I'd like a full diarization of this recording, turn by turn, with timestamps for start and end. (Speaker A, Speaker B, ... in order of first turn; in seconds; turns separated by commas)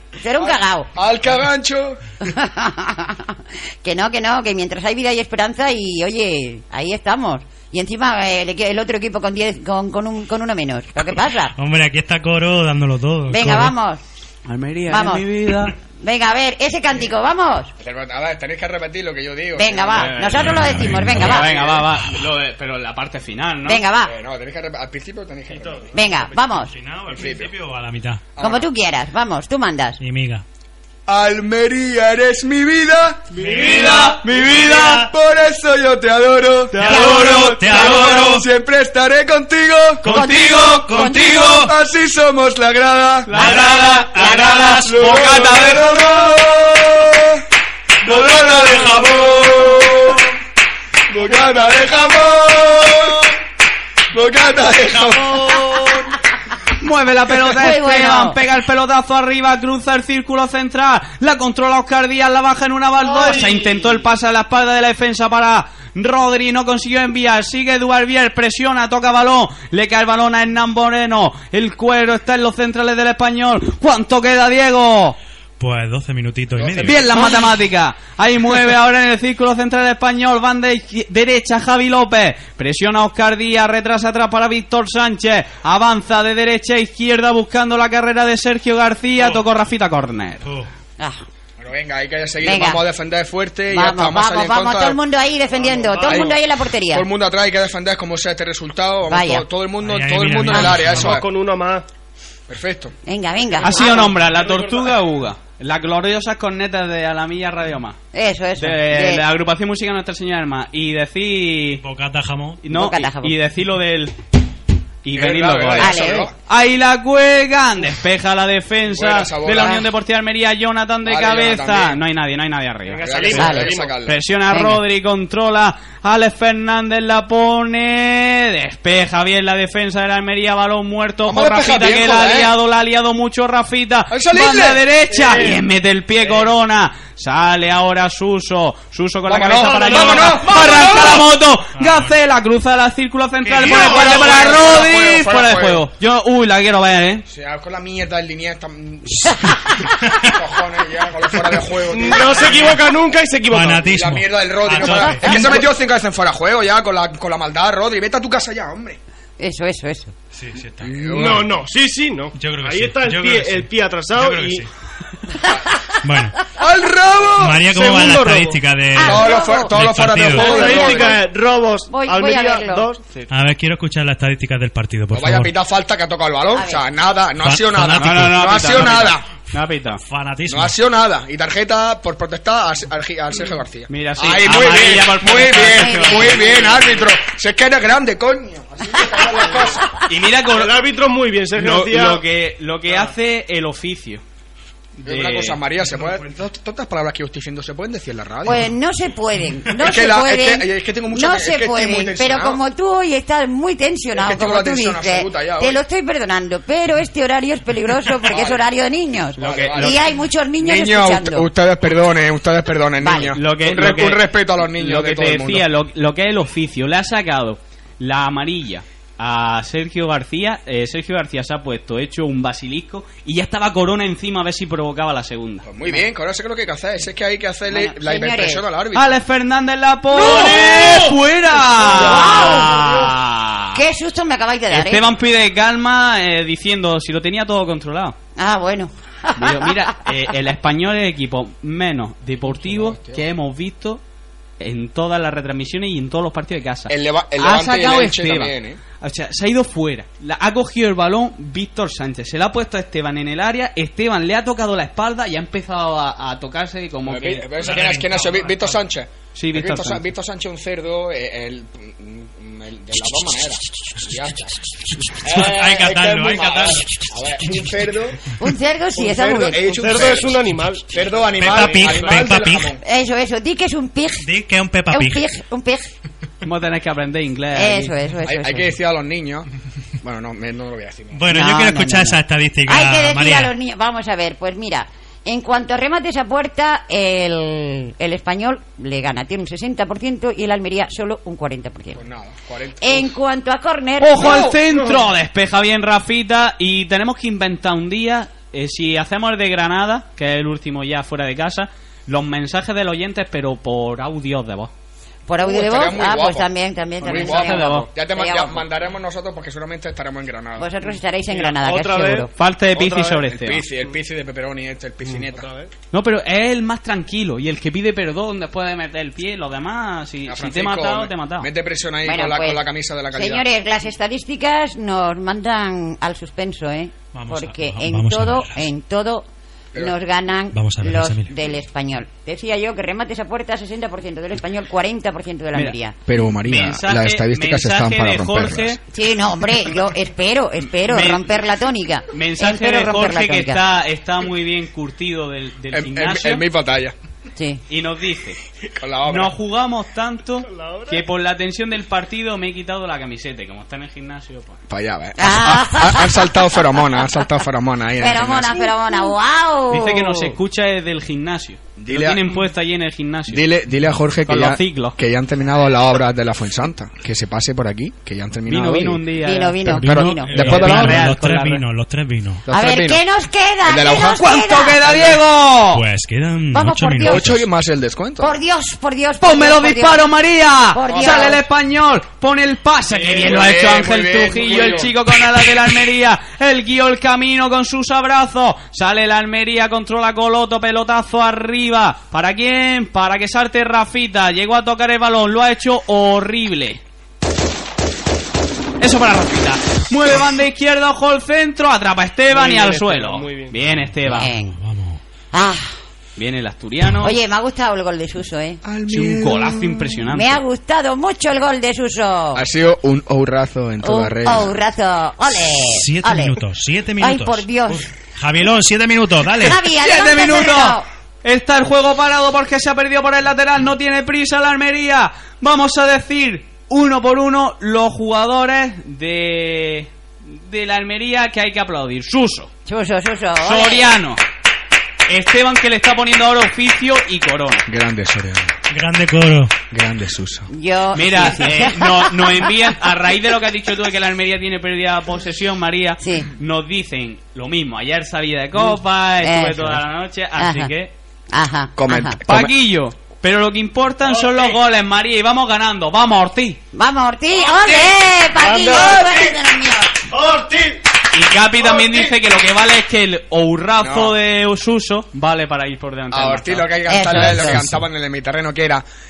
Speaker A: 0.2-0.9, Speaker B: 0.4-2.0, Speaker A: 2.2-11.5, Speaker C: 11.6-13.7, Speaker A: 13.3-14.0, Speaker D: 14.4-15.7, Speaker A: 14.9-15.3, Speaker A: 16.0-17.7, Speaker B: 17.8-20.4, Speaker A: 19.5-21.5, Speaker D: 19.9-20.5, Speaker C: 20.4-21.4, Speaker D: 21.1-23.8, Speaker B: 21.3-21.9, Speaker A: 23.6-24.1, Speaker B: 24.0-25.9, Speaker E: 25.5-25.8, Speaker A: 25.9-26.7, Speaker C: 26.7-28.2, Speaker B: 27.1-27.5, Speaker B: 28.4-28.7, Speaker A: 28.4-30.0, Speaker C: 30.0-30.4, Speaker B: 31.1-33.3, Speaker E: 33.3-34.2, Speaker C: 33.4-35.1, Speaker D: 33.4-35.0, Speaker B: 34.2-40.0, Speaker D: 36.7-38.3, Speaker C: 36.8-38.4, Speaker D: 40.0-41.4, Speaker A: 40.0-41.6, Speaker C: 40.0-41.7, Speaker B: 41.4-43.3, Speaker D: 43.2-46.0, Speaker C: 43.3-45.3, Speaker A: 43.3-44.5, Speaker B: 44.6-47.4, Speaker B: 48.0-50.3, Speaker C: 48.3-49.0, Speaker B: 51.1-53.3, Speaker B: 54.1-56.1, Speaker C: 54.9-55.9, Speaker D: 56.8-75.2, Speaker A: 57.4-58.4, Speaker E: 63.0-63.8, Speaker C: 75.6-77.0, Speaker B: 76.5-77.3, Speaker D: 76.8-90.5, Speaker C: 90.4-90.7, Speaker B: 91.6-95.0, Speaker A: 92.4-92.8, Speaker A: 93.7-97.0, Speaker E: 95.6-96.3, Speaker B: 96.0-96.4, Speaker B: 96.9-101.3, Speaker A: 99.1-99.4, Speaker C: 99.8-101.2, Speaker A: 100.5-100.7, Speaker E: 100.8-101.8, Speaker B: 102.5-102.9, Speaker A: 103.0-104.1, Speaker D: 103.6-108.0, Speaker E: 103.7-104.9, Speaker A: 108.1-109.2, Speaker D: 108.6-111.8, Speaker C: 111.8-112.6, Speaker D: 112.6-114.1, Speaker A: 112.7-113.3, Speaker D: 115.0-123.4, Speaker B: 115.1-116.3, Speaker A: 115.8-116.3, Speaker B: 118.9-119.9, Speaker B: 121.0-122.0, Speaker E: 122.9-123.9, Speaker B: 123.0-124.2, Speaker A: 123.3-123.8, Speaker D: 124.0-147.2, Speaker A: 124.5-124.8, Speaker B: 131.2-132.5, Speaker B: 134.1-134.8, Speaker E: 135.2-135.6, Speaker B: 139.2-141.3, Speaker C: 139.9-141.2, Speaker C: 141.7-142.1, Speaker C: 143.4-144.6, Speaker B: 143.6-145.8, Speaker B: 147.3-152.8, Speaker E: 151.9-153.9, Speaker C: 153.5-155.6, Speaker B: 153.8-159.0, Speaker A: 159.4-160.1, Speaker C: 160.3-161.1, Speaker B: 160.8-161.6, Speaker E: 161.1-164.7, Speaker C: 162.3-164.7, Speaker C: 166.0-166.4, Speaker B: 166.6-167.6, Speaker C: 167.4-170.6, Speaker E: 167.7-168.6, Speaker A: 168.9-169.7, Speaker B: 169.0-171.2, Speaker E: 170.3-173.2, Speaker A: 170.4-171.2, Speaker A: 171.9-172.9, Speaker C: 173.3-175.5, Speaker B: 175.1-179.2, Speaker A: 176.5-176.8, Speaker C: 177.4-179.1, Speaker D: 178.0-180.0, Speaker C: 180.0-180.7, Speaker B: 180.5-190.0, Speaker D: 183.9-186.9, Speaker A: 185.6-186.8, Speaker D: 190.0-190.8, Speaker E: 190.5-192.2, Speaker D: 191.6-194.2, Speaker D: 195.0-195.6, Speaker B: 195.0-198.7, Speaker A: 198.4-211.5, Speaker B: 199.8-202.6, Speaker B: 204.2-205.8, Speaker B: 208.3-208.6, Speaker D: 209.4-210.0, Speaker B: 209.4-210.1, Speaker B: 210.6-215.7, Speaker A: 213.0-213.3, Speaker D: 213.3-225.7, Speaker B: 225.6-229.2, Speaker A: 227.7-228.6, Speaker D: 228.9-233.8, Speaker E: 230.2-231.1, Speaker E: 231.8-232.9, Speaker A: 231.9-232.9, Speaker A: 233.7-235.1, Speaker D: 234.7-238.2, Speaker A: 238.3-240.1, Speaker D: 239.3-244.0, Speaker B: 242.4-243.2, Speaker D: 244.6-257.5, Speaker B: 246.9-248.8, Speaker B: 257.0-268.3, Speaker C: 257.6-258.8, Speaker D: 259.3-260.0, Speaker C: 265.2-267.0, Speaker A: 268.4-269.9, Speaker E: 269.0-272.3, Speaker B: 269.4-272.8, Speaker C: 271.4-272.7, Speaker A: 272.8-274.3, Speaker C: 274.2-275.2, Speaker A: 274.9-275.9, Speaker D: 276.4-277.9, Speaker A: 277.5-278.7, Speaker B: 278.2-279.5, Speaker B: 280.0-281.2, Speaker C: 281.1-283.5, Speaker A: 281.3-292.0, Speaker B: 291.9-293.1, Speaker A: 292.8-294.5, Speaker D: 294.0-304.7, Speaker B: 294.2-294.7, Speaker A: 305.3-308.7, Speaker B: 305.4-306.4, Speaker B: 307.0-310.7, Speaker D: 307.1-307.9, Speaker A: 310.6-312.3, Speaker E: 311.3-313.2, Speaker D: 312.4-313.6, Speaker B: 313.2-315.5, Speaker E: 315.1-315.7, Speaker D: 315.9-321.5, Speaker B: 320.3-323.4, Speaker A: 322.0-335.9, Speaker C: 327.1-328.6, Speaker C: 330.5-331.3, Speaker B: 336.1-338.8, Speaker D: 336.4-338.8, Speaker A: 338.9-343.6, Speaker D: 340.8-341.2, Speaker D: 342.1-346.4, Speaker B: 345.7-346.9, Speaker A: 347.4-347.6, Speaker D: 347.7-348.4, Speaker B: 348.8-349.3, Speaker D: 349.1-354.6, Speaker E: 350.4-351.0, Speaker B: 354.7-358.7, Speaker A: 355.2-357.0, Speaker A: 358.0-360.3, Speaker D: 359.7-363.5, Speaker B: 361.8-362.4, Speaker B: 363.3-369.0, Speaker D: 364.2-365.0, Speaker D: 368.5-371.6, Speaker A: 369.2-370.3, Speaker B: 369.6-371.1, Speaker C: 369.7-372.4, Speaker B: 372.4-373.0, Speaker A: 372.5-374.8, Speaker B: 373.6-374.2, Speaker D: 374.2-375.8, Speaker B: 374.8-375.2, Speaker C: 375.7-377.4, Speaker A: 376.5-377.4, Speaker B: 377.0-378.4, Speaker A: 378.2-380.0, Speaker D: 379.2-396.8, Speaker A: 380.7-381.4, Speaker B: 380.9-381.4, Speaker B: 383.0-384.9, Speaker D: 398.8-404.3, Speaker E: 402.3-403.6, Speaker A: 404.0-404.6, Speaker C: 404.6-405.0, Speaker A: 405.3-405.7, Speaker D: 406.2-407.1, Speaker A: 407.0-408.6, Speaker B: 408.6-409.9, Speaker D: 408.9-410.4, Speaker A: 410.0-412.4, Speaker B: 412.3-414.5, Speaker A: 413.8-416.4, Speaker C: 415.7-419.6, Speaker A: 417.0-417.9, Speaker A: 419.3-420.9, Speaker D: 419.8-432.5, Speaker A: 432.6-433.9, Speaker D: 433.4-434.2, Speaker D: 435.1-437.6, Speaker B: 437.7-438.5, Speaker C: 438.7-439.6, Speaker B: 439.7-440.5, Speaker A: 440.5-442.4, Speaker D: 440.9-450.9, Speaker A: 446.0-446.3, Speaker A: 449.2-449.8, Speaker A: 450.4-450.7, Speaker A: 451.3-452.2, Speaker B: 451.8-452.5, Speaker D: 452.3-456.6, Speaker E: 454.1-454.6, Speaker A: 456.7-460.0, Speaker E: 458.4-459.2, Speaker E: 460.1-460.8, Speaker D: 461.1-466.7, Speaker E: 461.6-462.1, Speaker B: 463.8-464.1, Speaker B: 466.1-468.8, Speaker A: 466.9-467.7